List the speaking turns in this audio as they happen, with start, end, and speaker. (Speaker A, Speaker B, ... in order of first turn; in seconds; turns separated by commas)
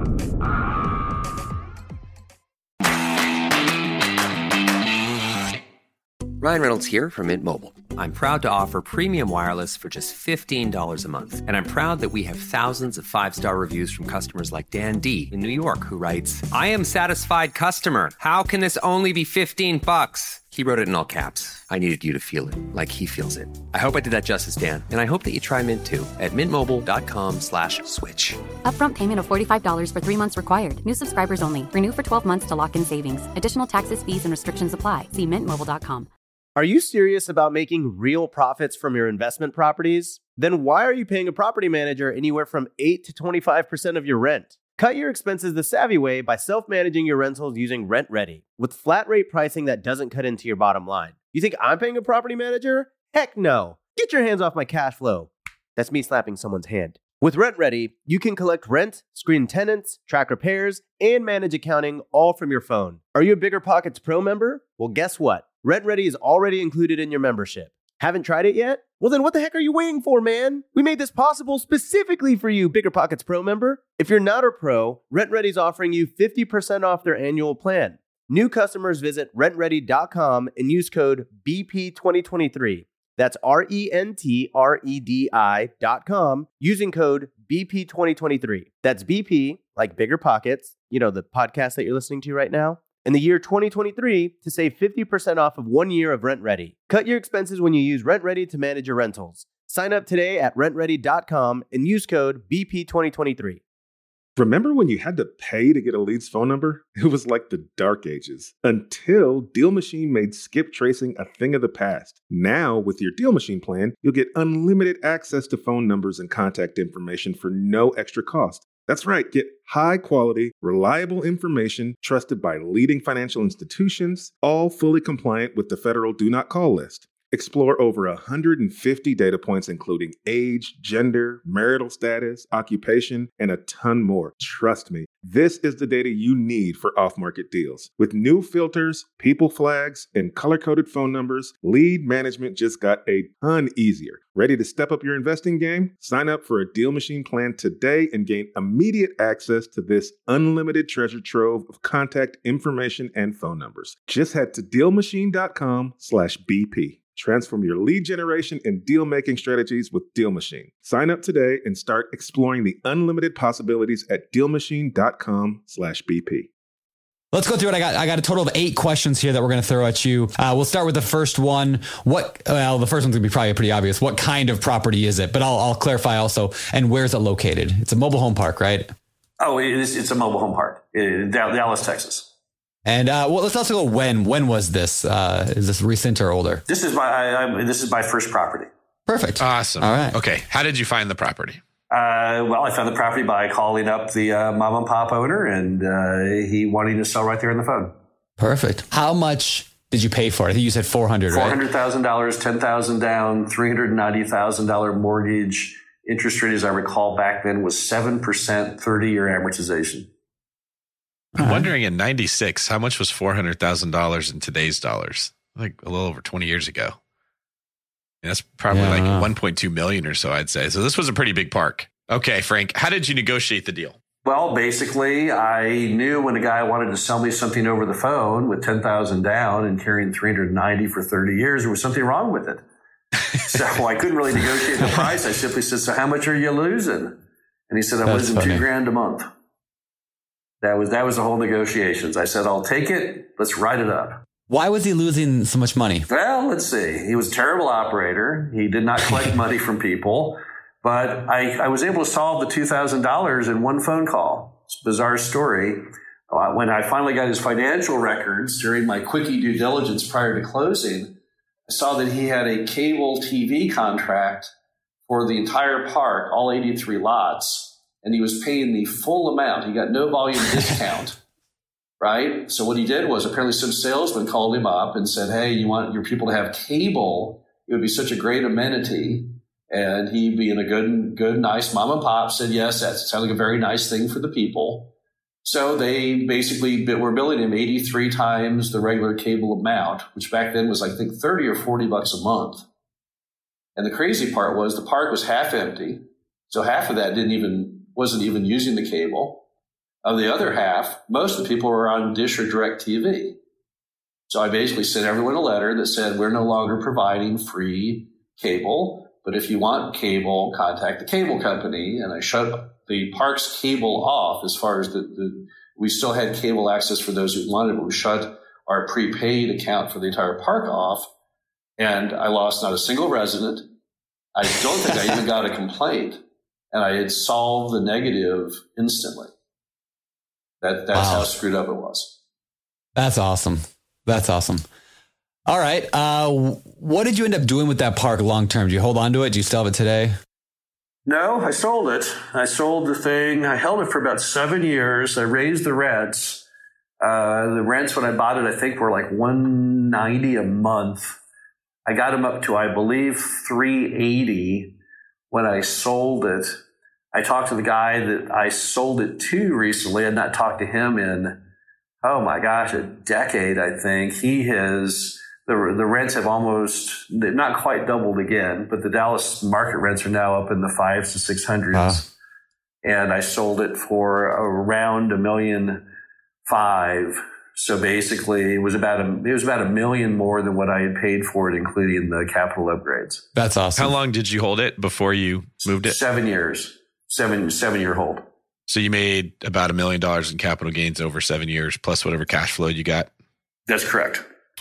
Speaker A: 6.4-28.4, Speaker B: 28.6-36.1, Speaker C: 36.5-103.6, Speaker D: 104.3-166.5, Speaker E: 167.3-178.9, Speaker F: 179.4-182.3, Speaker E: 182.8-186.6, Speaker F: 186.7-188.7, Speaker E: 189.1-190.2, Speaker G: 189.4-191.6, Speaker F: 191.9-197.9, Speaker E: 198.4-201.6, Speaker F: 201.3-210.1, Speaker E: 211.4-211.7, Speaker G: 211.4-217.0, Speaker G: 218.2-224.0, Speaker E: 218.7-219.3, Speaker F: 224.2-232.6, Speaker F: 233.4-237.2, Speaker F: 237.7-239.2, Speaker E: 238.1-238.6, Speaker F: 240.6-244.2, Speaker E: 244.5-246.1, Speaker F: 246.1-261.1, Speaker F: 261.7-264.5, Speaker F: 265.1-271.2, Speaker F: 272.0-284.9, Speaker F: 285.4-292.6, Speaker F: 293.8-299.4, Speaker F: 300.0-303.4, Speaker F: 304.3-321.1, Speaker F: 321.8-323.6, Speaker F: 324.4-326.2, Speaker F: 326.7-329.3, Speaker F: 330.6-332.1, Speaker E: 330.9-331.3, Speaker E: 332.9-334.6, Speaker E: 335.5-340.1, Speaker F: 341.1-346.4, Speaker F: 347.0-351.2, Speaker F: 351.9-354.8, Speaker F: 355.3-356.5, Speaker F: 357.1-361.4, Speaker F: 362.0-372.1, Speaker E: 371.7-372.0, Speaker F: 372.8-375.9, Speaker F: 376.4-383.3, Speaker E: 383.3-383.9, Speaker G: 383.8-385.9, Speaker F: 385.8-388.2, Speaker G: 388.7-393.1, Speaker F: 393.7-394.2